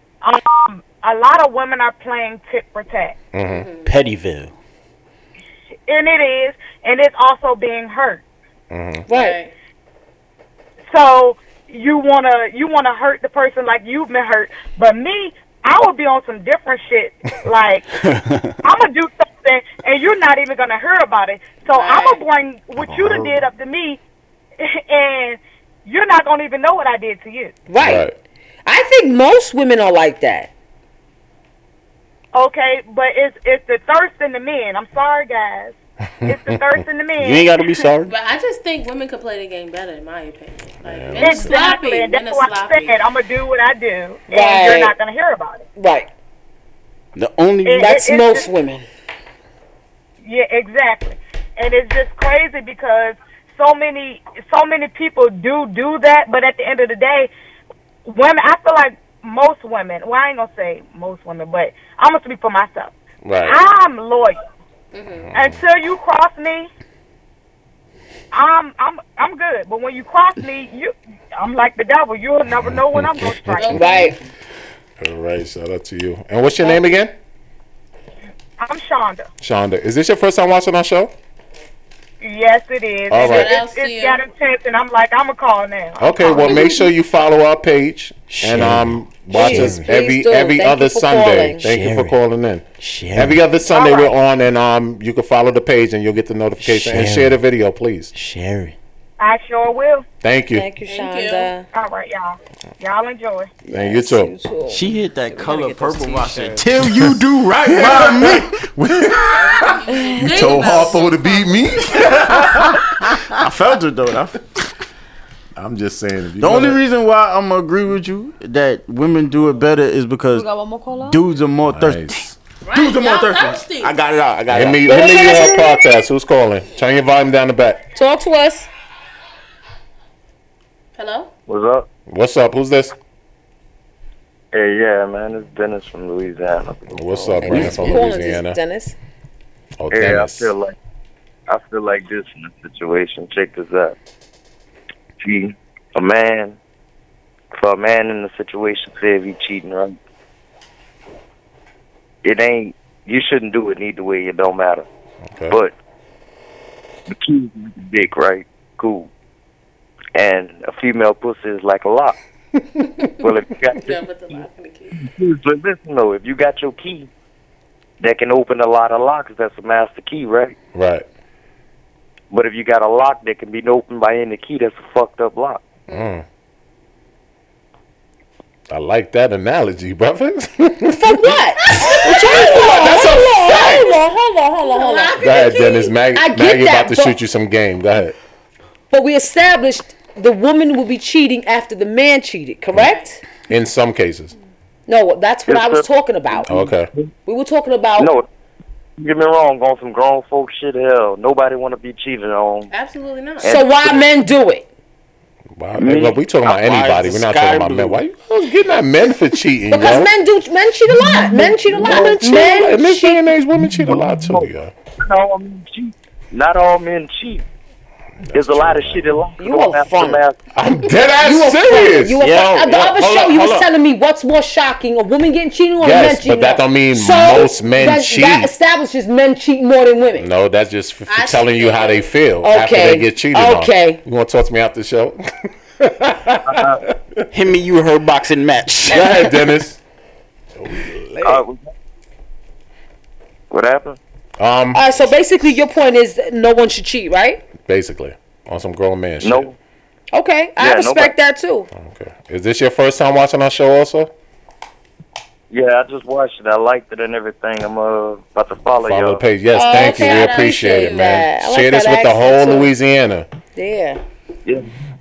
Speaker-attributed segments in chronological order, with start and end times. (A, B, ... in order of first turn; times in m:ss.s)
0:00.2-0:03.2 A
0:03.3-0:03.7 B
0:03.5-0:03.9 C
0:03.8-0:04.5 D
0:05.9-0:08.2 A
0:08.7-0:09.1 B
0:09.1-0:09.4 E
0:09.1-0:09.5 C
0:10.9-0:17.9 A
0:18.6-0:24.0 A
0:21.7-0:22.2 C
0:22.8-0:23.4 B
0:24.6-0:27.6 A
0:27.7-0:28.1 E
0:27.8-0:28.2 B
0:28.7-0:30.5 E
0:32.3-0:37.9 A
0:36.2-0:36.8 B
0:37.2-0:38.1 D
0:38.1-0:43.0 C
0:40.8-0:41.6 B
0:41.2-0:45.6 A
0:44.3-0:45.0 E
0:45.8-0:46.1 E
0:47.2-0:48.0 D
0:47.6-0:48.5 A
0:47.7-0:48.9 E
0:50.2-0:57.3 A
0:58.0-1:02.9 A
1:03.2-1:03.6 B
1:03.4-1:04.4 A
1:04.9-1:05.3 C
1:05.3-1:05.6 B
1:05.3-1:06.7 A
1:08.3-1:13.9 A
1:12.6-1:13.8 B
1:13.5-1:14.2 C
1:13.7-1:14.2 E
1:15.0-1:17.1 B
1:18.6-1:19.3 A
1:19.4-1:21.1 B
1:22.2-1:26.8 A
1:23.1-1:23.6 B
1:23.1-1:24.2 C
1:26.0-1:38.1 B
1:26.3-1:26.9 E
1:28.3-1:29.8 D
1:29.3-1:31.7 E
1:31.6-1:32.2 D
1:32.8-1:33.4 D
1:33.7-1:34.2 A
1:36.6-1:37.4 D
1:38.2-1:38.8 D
1:39.2-1:40.1 A
1:40.2-1:40.7 B
1:40.5-1:41.7 E
1:40.9-1:41.5 C
1:41.7-1:43.5 A
1:43.6-1:46.6 E
1:43.7-1:44.3 B
1:44.7-1:48.6 D
1:47.7-1:53.3 B
1:49.2-1:52.5 C
1:49.9-1:50.8 E
1:53.4-1:54.7 D
1:55.6-1:56.8 B
1:56.4-2:00.5 D
2:00.3-2:01.2 E
2:01.1-2:02.2 D
2:01.7-2:02.4 B
2:02.6-2:04.0 C
2:02.7-2:04.9 D
2:04.5-2:07.8 B
2:04.9-2:05.8 E
2:08.0-2:08.7 E
2:11.0-2:11.3 C
2:11.5-2:11.9 F
2:12.1-2:13.0 B
2:14.5-2:17.0 F
2:16.9-2:18.6 B
2:17.2-2:19.0 E
2:17.5-2:18.0 D
2:19.8-2:20.5 B
2:19.9-2:20.8 F
2:21.5-2:24.0 F
2:25.2-2:26.6 F
2:27.6-2:30.0 F
2:32.2-2:34.9 F
2:35.3-2:35.6 B
2:37.1-2:39.1 F
2:40.2-2:42.2 F
2:43.2-2:44.4 F
2:43.8-2:45.0 C
2:45.0-2:47.1 F
2:48.0-2:50.6 F
2:50.7-2:51.1 B
2:52.3-2:55.7 F
2:55.9-2:56.2 B
2:58.7-3:03.9 B
3:01.0-3:07.2 E
3:02.0-3:03.2 D
3:04.7-3:05.5 C
3:05.1-3:08.2 B
3:08.9-3:13.2 E
3:13.5-3:14.3 B
3:14.9-3:16.7 E
3:15.5-3:17.1 F
3:16.5-3:16.9 B
3:17.3-3:18.1 E
3:18.0-3:18.3 F
3:19.0-3:22.7 F
3:22.7-3:23.5 C
3:23.4-3:24.1 F
3:23.4-3:24.7 E
3:25.6-3:30.1 B
3:25.8-3:26.2 F
3:26.4-3:28.0 D
3:29.7-3:33.3 E
3:31.0-3:34.7 B
3:33.8-3:37.4 F
3:38.2-3:39.2 B
3:38.3-3:40.4 F
3:39.4-3:40.2 E
3:40.5-3:42.3 B
3:41.2-3:50.3 E
3:42.2-3:43.7 D
3:45.8-3:48.5 B
3:50.2-3:57.2 B
3:51.1-3:52.1 C
3:52.4-3:54.0 E
3:56.5-3:56.8 F
3:57.3-3:59.3 D
3:58.9-3:59.8 B
4:00.6-4:01.4 B
4:01.2-4:01.6 F
4:03.5-4:04.0 F
4:04.4-4:04.8 B
4:04.7-4:07.4 E
4:07.6-4:09.5 B
4:09.2-4:09.5 F
4:10.1-4:11.7 E
4:10.6-4:11.1 F
4:11.7-4:14.1 B
4:15.5-4:19.2 F
4:18.8-4:23.3 B
4:19.5-4:22.7 E
4:19.6-4:21.2 C
4:23.6-4:24.0 E